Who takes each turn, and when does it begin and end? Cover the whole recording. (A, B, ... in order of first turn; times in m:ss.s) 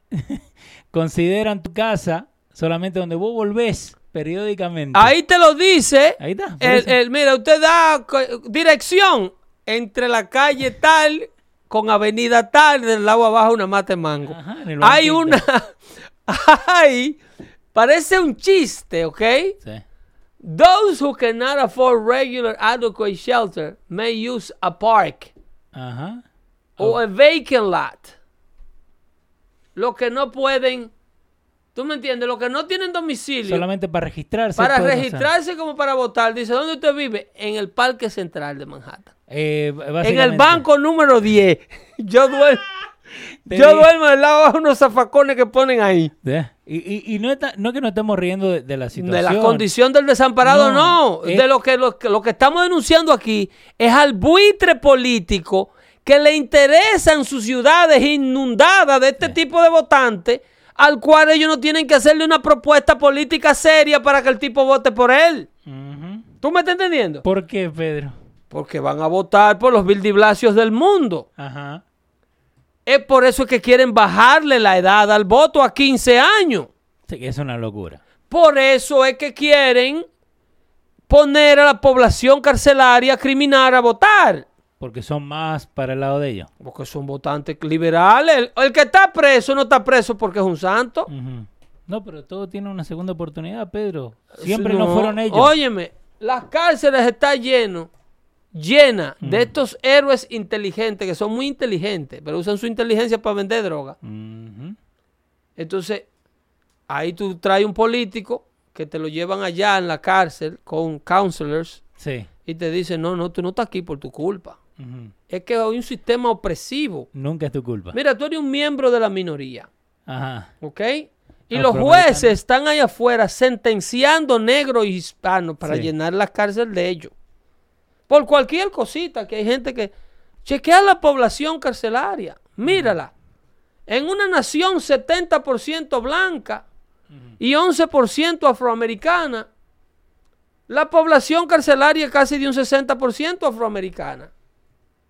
0:00.1-0:05.1 A
0:05.0-0:17.2 B
0:06.2-0:07.0 A
0:14.3-0:15.4 A
0:17.7-0:19.6 B
0:20.4-0:25.3 B
0:25.7-0:26.2 A
0:26.8-0:28.2 B
0:29.8-0:30.9 B
0:31.8-0:33.6 B
0:33.5-0:35.3 A
0:34.6-0:39.1 B
0:39.3-0:40.6 A
0:40.0-0:42.7 B
0:43.5-0:43.9 A
0:43.5-0:46.1 B
0:46.2-0:49.7 A
0:49.0-1:05.5 B
0:50.4-0:51.4 A
1:05.7-1:06.3 A
1:06.4-1:07.2 B
1:07.2-1:08.2 A
1:08.5-1:11.3 B
1:11.4-1:11.8 A
1:12.9-1:16.7 B
1:17.1-1:18.0 A
1:18.3-1:20.1 B
1:21.1-1:24.4 B
1:24.8-1:26.5 A
1:26.6-1:31.1 B
1:31.1-1:35.5 A
1:34.3-1:37.9 B
1:38.5-1:44.0 B
1:39.2-1:39.5 A
1:44.0-1:44.8 A
1:45.6-1:46.1 B
1:46.9-1:51.8 B
1:52.0-1:52.3 A
1:52.5-1:54.6 B
1:54.8-1:55.1 A
1:55.3-1:57.1 B
1:57.1-1:58.0 A
1:57.9-1:59.7 B
2:00.1-2:00.5 A
2:00.6-2:07.1 B
2:01.5-2:02.4 A
2:05.6-2:05.9 A
2:08.1-2:09.9 B
2:10.4-2:13.1 B
2:12.7-2:12.9 A
2:13.9-2:16.6 B
2:17.4-2:19.5 B
2:20.7-2:24.3 B